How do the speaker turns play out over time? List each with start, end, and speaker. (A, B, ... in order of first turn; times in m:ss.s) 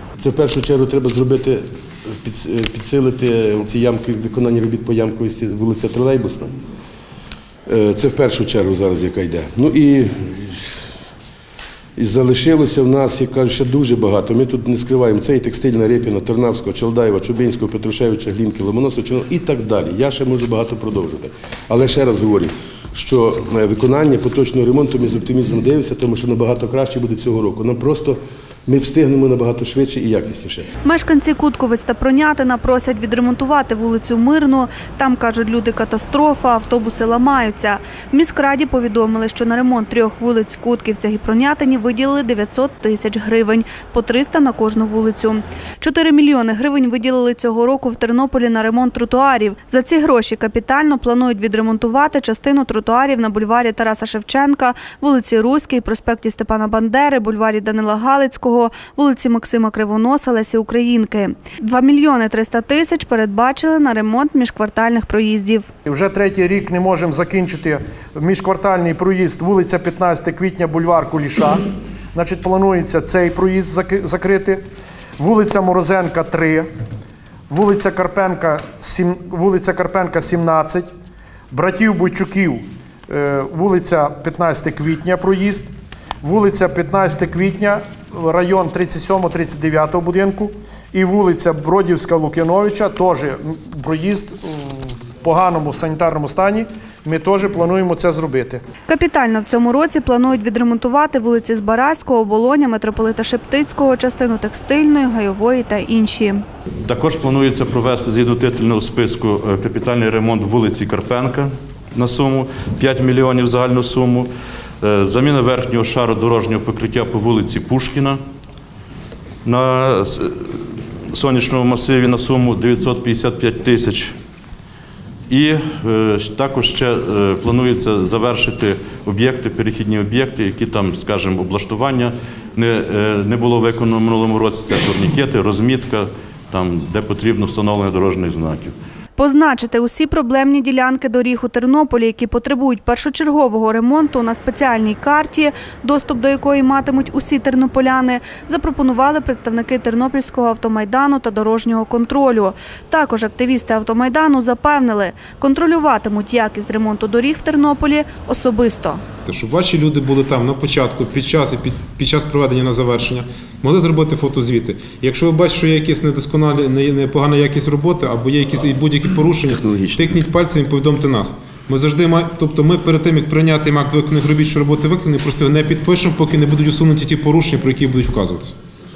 0:00.2-0:01.6 A
0:02.2-0:06.5 A
0:07.7-0:10.9 A
0:12.0-0:30.7 A
0:30.8-1:05.7 B
1:05.9-1:14.6 C
1:15.2-1:16.7 C
1:17.5-1:20.9 C
1:21.5-1:25.7 C
1:26.2-1:38.6 C
1:38.9-1:46.4 B
1:46.8-1:54.3 D
1:54.8-1:58.2 D
1:59.4-2:04.1 D
2:05.3-2:18.7 D
2:19.2-2:39.0 B
2:39.2-2:58.6 E